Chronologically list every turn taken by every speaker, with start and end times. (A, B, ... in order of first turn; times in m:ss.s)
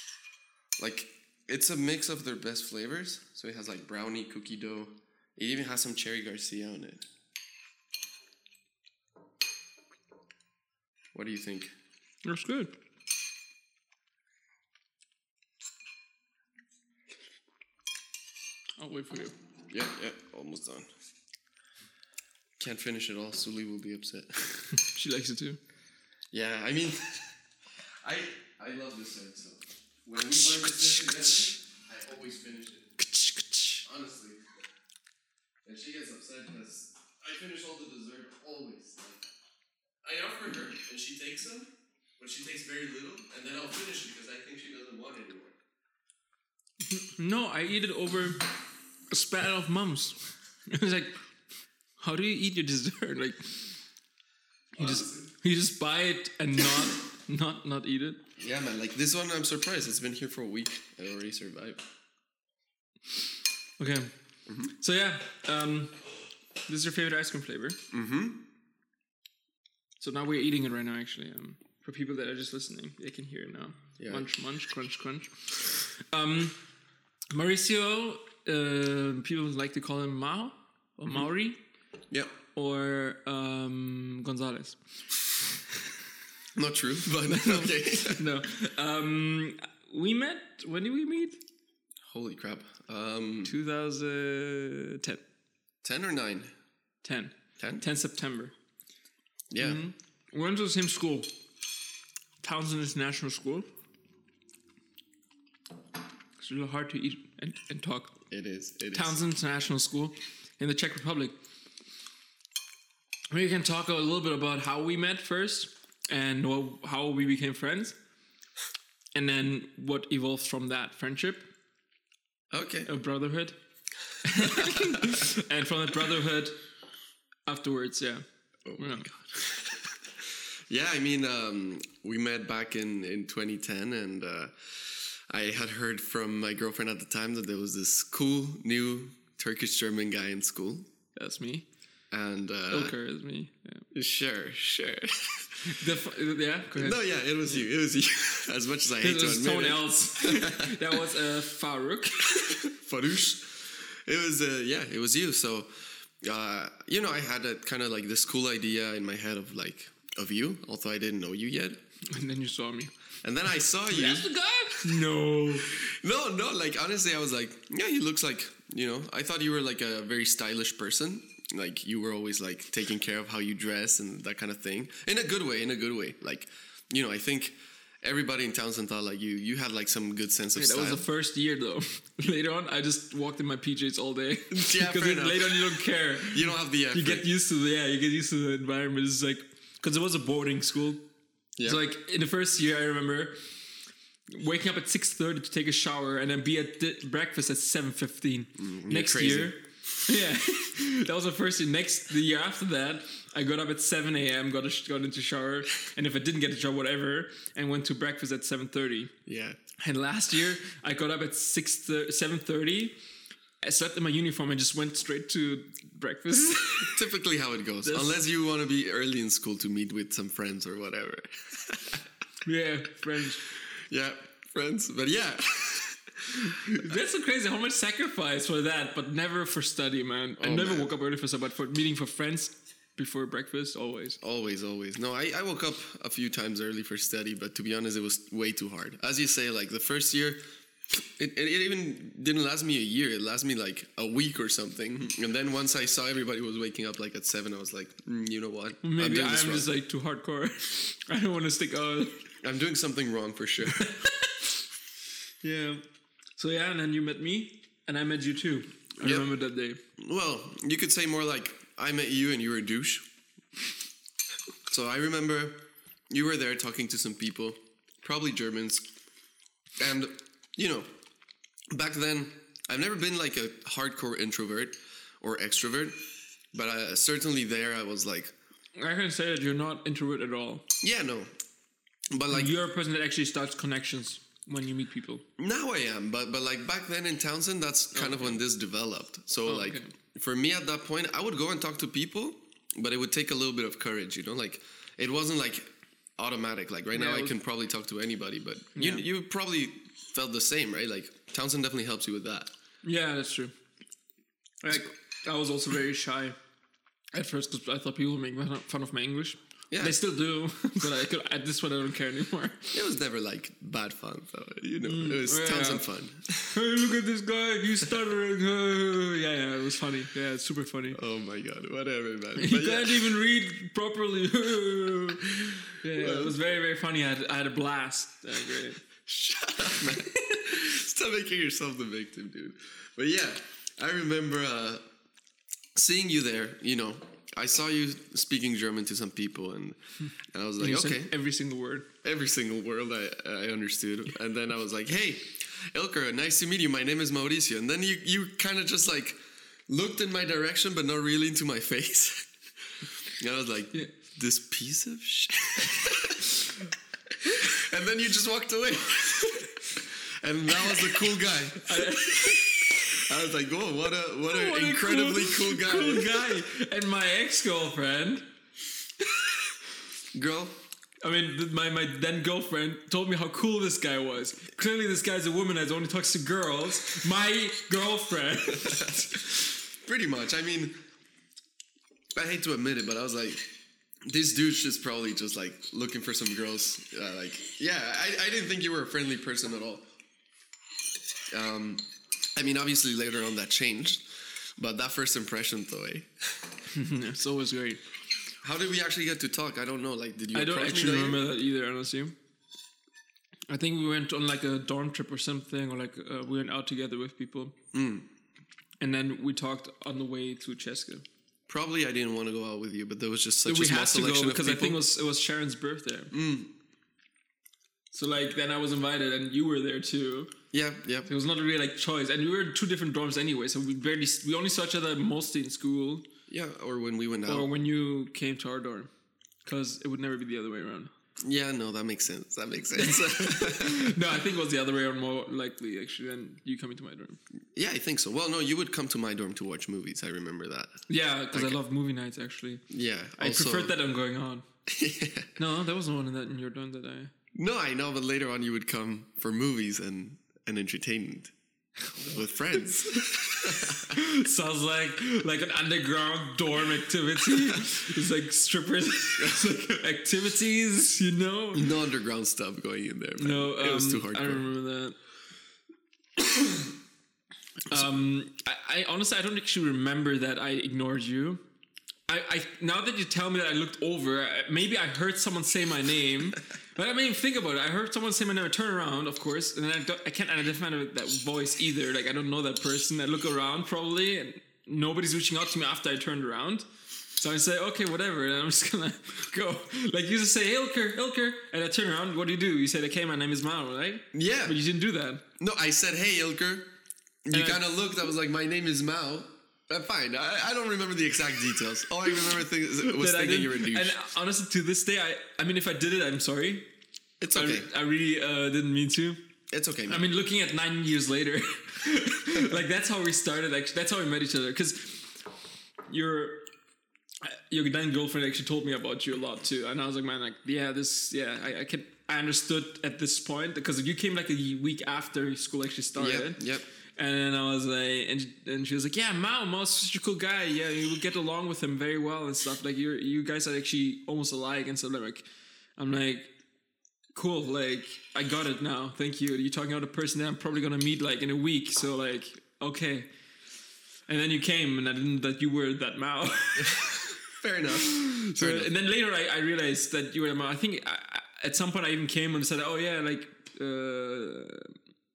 0:00.8-0:07.1 A
0:11.1-0:11.8 A
0:12.2-0:12.7 B
0:18.8-0:19.3 B
0:19.7-0:20.9 A
0:22.6-0:24.8 A
0:24.8-0:25.6 B
0:26.3-0:27.3 A
0:28.0-0:32.9 A
0:33.0-0:33.8 B
0:33.8-0:34.4 A
0:35.6-0:39.3 A
0:40.0-0:45.6 A
0:46.9-0:48.4 B
0:49.1-0:51.2 B
0:52.0-0:53.7 B
0:54.7-0:55.3 A
0:54.8-0:58.2 B
0:58.4-1:01.8 A
1:03.8-1:04.1 B
1:04.7-1:05.9 B
1:06.7-1:07.8 B
1:07.9-1:08.4 A
1:10.0-1:16.6 B
1:14.0-1:14.3 A
1:17.3-1:21.6 B
1:22.6-1:24.8 B
1:26.5-1:28.3 A
1:27.2-1:31.4 B
1:32.0-1:33.6 A
1:33.4-1:35.2 B
1:35.8-1:36.5 A
1:37.0-1:38.5 B
1:37.6-1:37.9 A
1:39.5-1:39.8 A
1:39.6-1:41.3 B
1:42.4-1:43.7 B
1:46.4-1:48.2 B
1:48.3-1:49.2 A
1:48.9-1:51.4 B
1:53.3-1:58.0 B
1:59.1-2:01.5 B
2:02.5-2:02.9 A
2:02.9-2:03.6 B
2:04.2-2:06.6 B
2:04.3-2:05.2 A
2:07.5-2:08.2 B
2:08.7-2:20.9 A
2:08.8-2:09.1 B
2:21.2-2:21.7 B
2:22.1-2:23.0 A
2:22.7-2:23.9 B
2:23.9-2:25.8 A
2:25.6-2:27.6 B
2:26.8-2:31.0 A
2:29.0-2:32.4 B
2:32.2-2:41.8 A
2:42.1-2:42.9 B
2:43.2-2:45.1 A
2:43.9-2:45.7 B
2:45.7-3:01.0 A
3:00.6-3:11.0 B
3:04.5-3:07.3 A
3:11.6-3:13.4 B
3:14.3-3:29.1 B
3:18.6-3:20.0 A
3:29.3-3:29.6 A
3:29.8-3:33.0 B
3:33.6-3:37.0 B
3:36.9-3:42.0 A
3:37.8-3:38.2 B
3:42.4-3:43.5 B
3:43.5-3:47.0 A
3:46.3-3:54.2 B
3:50.4-3:50.9 A
3:54.2-4:09.7 A
4:08.8-4:12.2 B
4:12.4-4:13.8 A
4:13.7-4:14.5 B
4:15.4-4:15.8 B
4:16.4-4:19.8 B
4:19.0-4:19.3 A
4:20.0-4:23.0 A
4:24.7-4:28.8 A
4:29.8-4:30.9 A
4:31.7-4:36.0 A
4:36.5-4:38.3 A
4:38.8-4:40.6 B
4:40.8-4:41.3 A
4:42.1-4:42.6 A
4:42.3-4:45.2 B
4:45.4-5:02.5 A
4:47.9-4:48.4 B
4:49.4-4:49.9 B
4:56.9-4:57.4 B
4:58.8-4:59.0 B
5:02.8-5:03.5 B
5:04.6-5:06.4 B
5:07.1-5:12.8 B
5:09.7-5:10.0 A
5:12.7-5:16.6 A
5:14.8-5:15.9 B
5:16.5-5:21.0 B
5:20.9-5:23.2 A
5:22.4-5:28.8 B
5:25.9-5:26.3 A
5:29.0-5:34.8 A
5:29.8-5:30.5 B
5:35.8-5:41.1 A
5:40.6-5:41.9 B
5:42.0-5:52.3 A
5:52.8-5:56.6 A
5:57.1-6:06.3 A
6:01.6-6:02.7 B
6:04.3-6:08.3 B
6:10.1-6:10.6 A
6:11.0-6:19.4 B
6:18.6-6:18.9 A
6:19.8-6:20.8 A
6:22.1-6:23.5 A
6:24.1-6:29.9 A
6:31.3-6:36.5 A
6:36.7-6:37.8 B
6:38.4-6:41.2 A
6:40.3-6:42.2 B
6:43.5-6:47.5 B
6:47.7-6:48.1 A
6:48.8-6:51.0 B
6:51.5-6:54.8 A
6:53.4-6:56.1 B
6:56.1-6:56.5 A
6:57.9-7:00.3 B
7:00.5-7:01.1 A
7:01.1-7:06.1 B
7:06.3-7:07.5 A
7:07.3-7:08.9 B
7:09.4-7:10.9 B
7:11.2-7:14.1 A
7:12.8-7:17.2 B
7:17.5-7:21.6 A
7:20.9-7:22.6 B
7:22.7-7:23.8 A
7:23.2-7:24.4 B
7:24.7-7:25.3 A
7:25.4-7:27.1 B
7:27.3-7:31.3 A
7:32.0-7:34.0 A
7:32.9-7:41.7 B
7:39.2-7:39.5 A
7:41.5-7:44.5 A
7:43.2-7:45.0 B
7:47.7-7:51.4 B
7:52.1-8:15.2 B
8:14.1-8:14.6 A
8:15.4-8:16.7 A
8:17.2-8:24.0 A
8:17.3-8:17.6 B
8:22.8-8:26.7 B
8:27.2-8:27.7 A
8:27.3-8:29.2 B
8:29.5-8:30.1 A
8:29.9-8:35.1 B
8:35.9-8:36.4 B
8:37.2-8:46.4 B
8:46.0-8:46.7 A
8:47.0-8:55.3 B
8:55.8-8:56.3 B
8:57.2-9:03.1 B
9:04.1-9:07.2 B
9:06.6-9:08.7 A
9:07.7-9:14.7 B